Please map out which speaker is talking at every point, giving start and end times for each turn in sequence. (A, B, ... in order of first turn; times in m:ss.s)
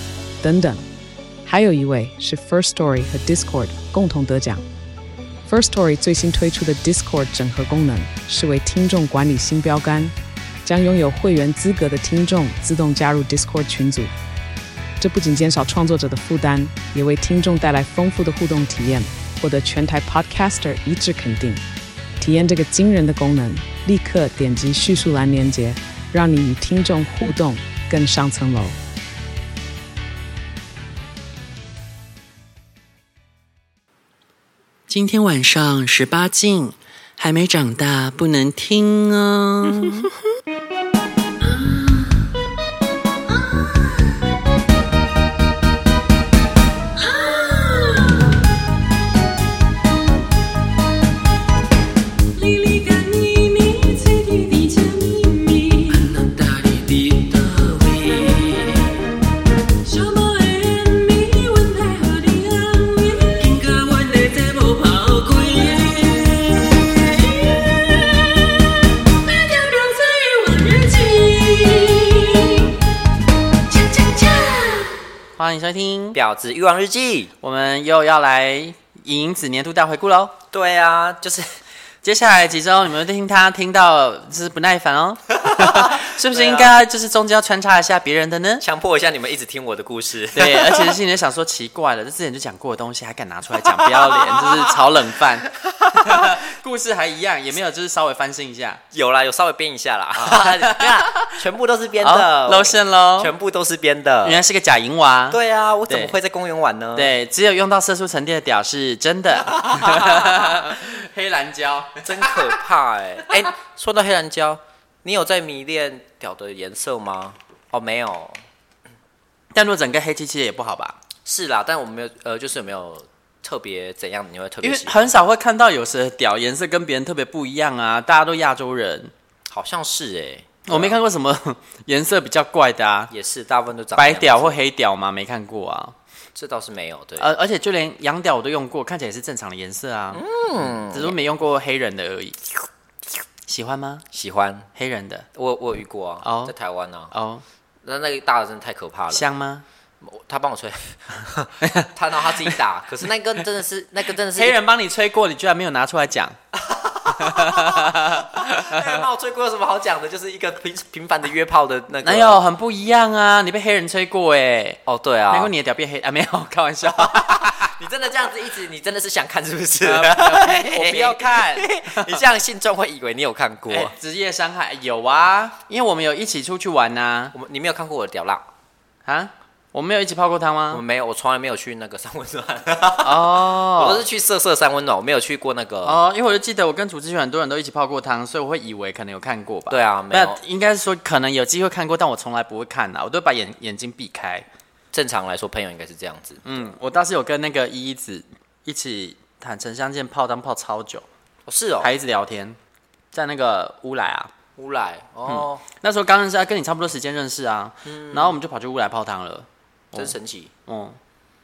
0:00.4-0:00.8 A
0:01.4-0:04.6 A
0:05.5-0:14.1 A
0:15.0-0:21.6 A
0:22.2-0:28.8 A
0:34.9-0:40.1 B
0:47.0-0:48.3 C
0:52.4-0:58.9 C
0:55.4-0:56.0 B
0:59.9-1:12.7 C
1:13.7-1:15.0 C
1:15.4-1:16.2 B
1:16.1-1:17.3 D
1:17.4-1:20.3 B
1:20.5-1:21.5 D
1:22.0-1:28.6 B
1:25.4-1:26.7 D
1:28.6-1:30.9 D
1:30.3-1:38.8 B
1:33.7-1:34.6 D
1:35.6-1:36.3 D
1:38.9-1:44.4 D
1:40.2-1:41.3 B
1:42.0-1:43.3 B
1:44.2-1:46.1 B
1:45.3-1:47.1 D
1:46.9-1:52.5 B
1:49.6-1:50.5 D
1:52.0-1:58.4 D
1:59.5-2:01.0 B
2:01.2-2:05.0 D
2:04.6-2:09.1 B
2:09.5-2:11.0 D
2:10.6-2:13.1 B
2:13.1-2:14.5 D
2:14.0-2:15.9 B
2:16.3-2:17.3 D
2:17.2-2:20.2 B
2:20.1-2:21.2 D
2:20.9-2:22.5 B
2:23.4-2:24.0 B
2:24.1-2:24.7 D
2:24.8-2:25.2 B
2:25.3-2:27.1 D
2:26.2-2:26.5 B
2:27.1-2:27.4 B
2:27.8-2:29.2 D
2:29.1-2:29.6 B
2:30.0-2:34.6 D
2:31.6-2:32.5 B
2:34.3-2:36.4 B
2:36.5-2:42.4 D
2:37.2-2:39.0 B
2:42.0-2:47.7 B
2:44.8-2:45.5 D
2:46.9-2:53.9 D
2:49.8-2:52.2 B
2:53.7-2:57.3 B
2:57.3-2:58.4 D
2:59.0-3:00.8 B
3:00.7-3:06.0 D
3:03.0-3:04.0 B
3:05.8-3:14.4 B
3:09.7-3:10.4 D
3:14.9-3:16.4 D
3:16.4-3:21.0 B
3:21.5-3:21.9 D
3:21.8-3:22.6 B
3:23.1-3:24.3 B
3:24.6-3:25.6 D
3:25.3-3:31.0 B
3:27.8-3:28.4 D
3:29.9-3:30.5 D